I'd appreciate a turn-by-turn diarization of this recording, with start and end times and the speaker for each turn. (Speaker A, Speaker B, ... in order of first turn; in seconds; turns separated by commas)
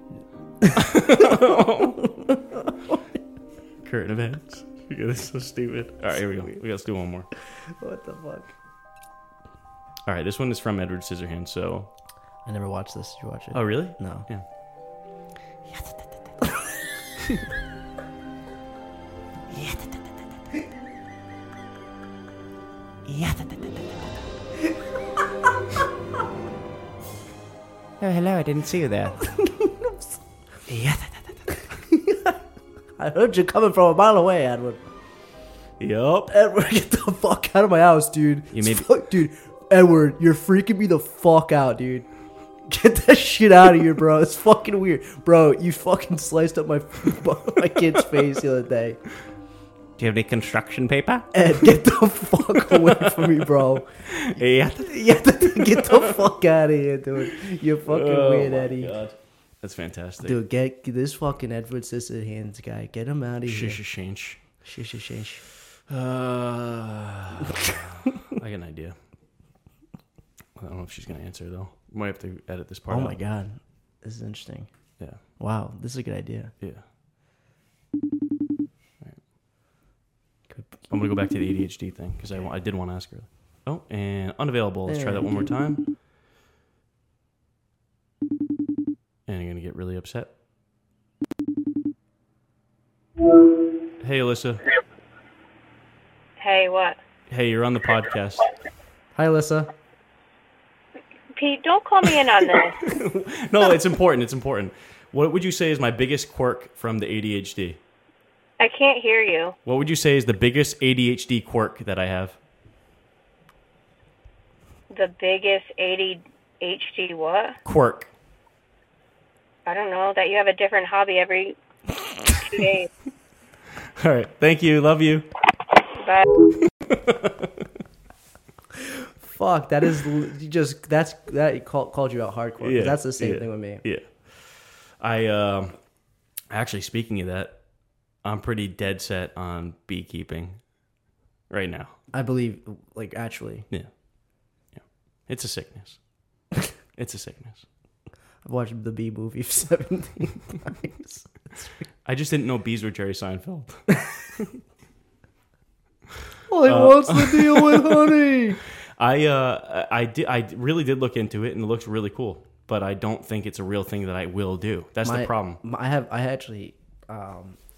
Speaker A: 0.6-3.0, Speaker B: 0.8-2.0, Speaker B: 3.8-7.3, Speaker A: 7.8-8.5, Speaker B: 10.1-11.9, Speaker A: 12.4-14.3, Speaker B: 13.5-14.4, Speaker B: 15.7-16.0, Speaker B: 19.5-20.1, Speaker B: 23.1-24.1, Speaker B: 28.0-29.2, Speaker A: 29.2-30.2, Speaker B: 30.7-31.6, Speaker A: 31.9-32.4, Speaker A: 33.0-34.8, Speaker B: 35.8-36.3, Speaker A: 36.3-42.1, Speaker B: 38.5-38.9, Speaker A: 42.7-49.0, Speaker B: 50.0-51.7, Speaker A: 51.3-53.9, Speaker B: 52.6-56.2, Speaker A: 54.8-58.9, Speaker B: 57.9-60.4, Speaker A: 60.2-63.8, Speaker B: 63.5-64.4, Speaker A: 64.6-65.4, Speaker B: 65.9-69.0, Speaker B: 70.5-73.2, Speaker A: 72.9-74.7, Speaker A: 75.4-76.5, Speaker A: 80.5-80.9, Speaker B: 80.9-85.8, Speaker A: 84.9-85.5, Speaker B: 89.3-90.3, Speaker B: 94.0-94.6, Speaker C: 96.4-97.0, Speaker B: 97.3-98.5, Speaker A: 99.1-99.7, Speaker C: 101.3-102.8, Speaker B: 102.8-107.8, Speaker C: 108.6-109.5, Speaker B: 109.6-112.4, Speaker C: 114.9-117.6, Speaker B: 117.6-118.1, Speaker C: 119.7-121.5, Speaker C: 122.3-122.9, Speaker B: 123.8-125.3, Speaker C: 126.0-126.3, Speaker B: 126.7-127.7, Speaker A: 129.2-133.8, Speaker B: 132.6-135.8, Speaker B: 136.5-137.6, Speaker B: 138.2-140.6, Speaker B: 141.5-141.9, Speaker A: 142.1-143.7, Speaker B: 144.7-146.0, Speaker B: 146.9-147.7, Speaker A: 148.4-151.7, Speaker B: 152.0-154.4, Speaker A: 156.5-158.6, Speaker B: 156.6-158.2, Speaker B: 159.0-165.6, Speaker A: 165.0-167.6